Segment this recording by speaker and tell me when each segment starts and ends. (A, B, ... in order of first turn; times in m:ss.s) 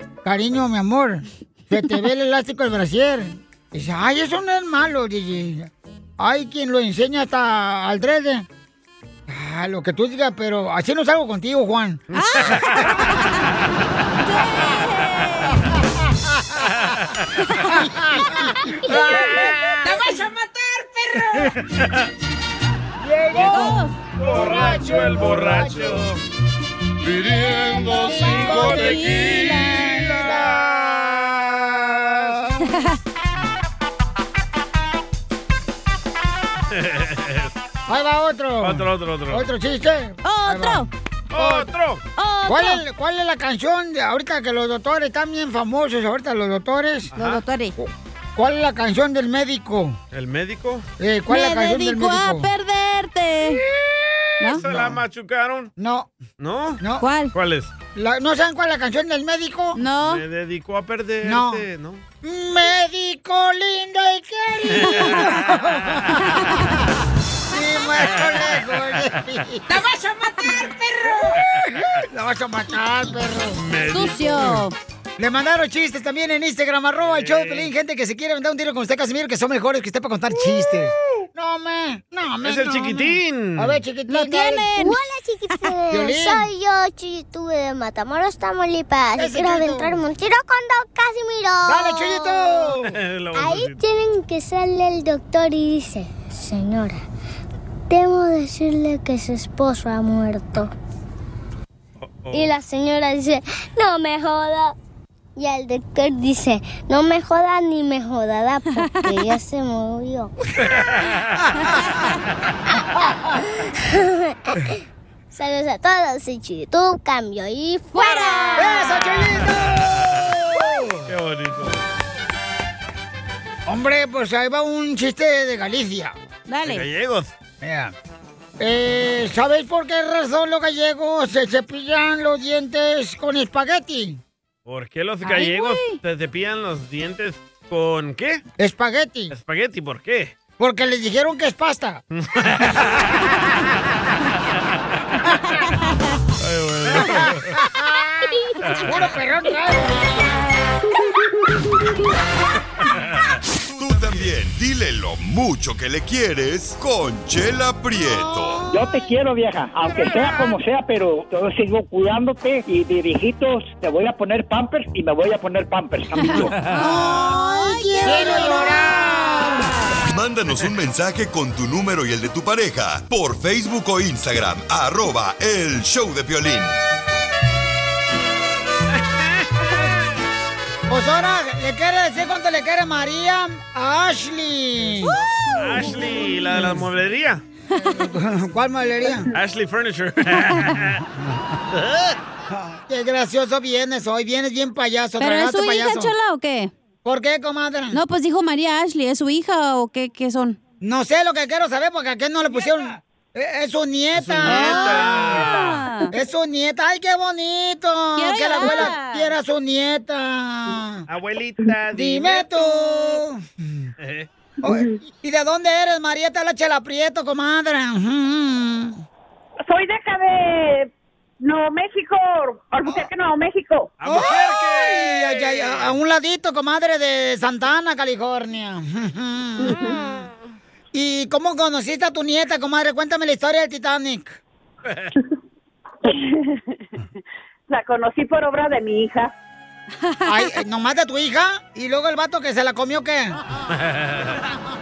0:00.2-0:08.4 A
0:09.3-0:12.0 A
0:12.1-0:12.9 B
0:12.1-0:13.4 C
0:12.7-0:13.1 A
0:14.2-0:15.6 C
0:16.2-0:16.6 A
0:16.8-0:17.2 B
0:17.7-0:19.9 A
0:19.2-0:19.7 B
0:19.8-0:21.5 D
0:23.0-0:26.1 A
0:23.3-0:26.2 B
0:23.4-0:23.9 C
0:27.1-0:30.4 B
0:27.6-0:32.7 A
0:28.0-0:30.0 C
0:36.7-0:37.5 B
0:37.9-0:41.7 A
0:38.6-0:39.5 B
0:40.2-0:40.9 C
0:41.3-0:42.0 B
0:42.2-0:42.8 C
0:42.5-0:47.1 A
0:47.1-0:47.7 C
0:47.1-0:47.4 B
0:47.8-0:50.0 A
0:50.1-0:50.8 B
0:51.0-0:52.5 A
0:51.3-0:53.6 C
0:54.5-0:55.7 B
0:54.6-0:55.0 A
0:55.8-0:56.1 A
0:56.4-0:56.8 B
0:56.8-0:57.0 A
0:57.0-0:57.3 C
0:57.3-0:57.7 B
0:57.9-0:59.8 A
0:59.8-1:00.2 C
1:00.0-1:02.0 B
1:01.2-1:01.6 A
1:02.2-1:06.9 A
1:04.7-1:05.4 B
1:07.5-1:09.6 A
1:08.1-1:08.5 B
1:09.7-1:11.4 D
1:11.5-1:13.6 A
1:13.5-1:14.6 B
1:13.9-1:14.7 C
1:15.2-1:24.8 A
1:17.0-1:17.7 B
1:22.4-1:23.8 B
1:24.1-1:25.7 C
1:24.8-1:32.5 E
1:25.9-1:26.5 A
1:29.2-1:30.0 A
1:31.6-1:32.9 A
1:32.8-1:33.8 B
1:33.4-1:37.0 E
1:37.9-1:40.7 E
1:42.0-1:42.5 B
1:42.3-1:44.7 E
1:45.4-1:50.3 E
1:48.7-1:49.3 C
1:50.6-1:51.4 B
1:55.3-1:58.1 E
1:57.9-1:59.1 C
1:58.5-2:01.0 A
1:59.7-2:00.2 B
2:01.0-2:01.8 B
2:03.7-2:06.2 A
2:06.5-2:06.9 C
2:06.6-2:07.3 B
2:07.6-2:07.9 A
2:08.6-2:14.2 A
2:14.6-2:18.4 B
2:15.2-2:16.0 C
2:18.6-2:19.3 A
2:19.3-2:20.4 B
2:20.6-2:22.0 A
2:22.1-2:23.2 B
2:26.4-2:27.5 B
2:26.9-2:30.3 A
2:33.7-2:38.6 F
2:38.2-2:38.8 A
2:38.7-2:46.5 G
2:46.1-2:49.8 C
2:46.8-2:49.7 A
2:50.1-2:56.8 F
2:59.1-2:59.5 B
3:00.9-3:05.2 A
3:05.5-3:07.4 B
3:06.5-3:06.8 A
3:07.8-3:09.3 A
3:09.3-3:11.0 B
3:11.7-3:12.2 B
3:12.5-3:16.1 A
3:15.2-3:16.7 C
3:17.0-3:18.0 A
3:17.9-3:20.6 C
3:20.8-3:25.5 A
3:24.1-3:25.8 B
3:24.4-3:26.1 C
3:26.1-3:31.0 A
3:28.2-3:29.3 C
3:31.1-3:32.5 B
3:31.9-3:33.9 A
3:34.0-3:34.3 B
3:34.6-3:39.0 A
3:39.7-3:40.9 H
3:41.4-3:43.9 H
3:44.0-3:45.9 B
3:44.0-3:50.0 A
3:50.9-3:54.4 A
3:56.0-3:56.3 H
3:57.7-3:59.3 H
4:00.2-4:03.4 A
4:03.8-4:04.4 B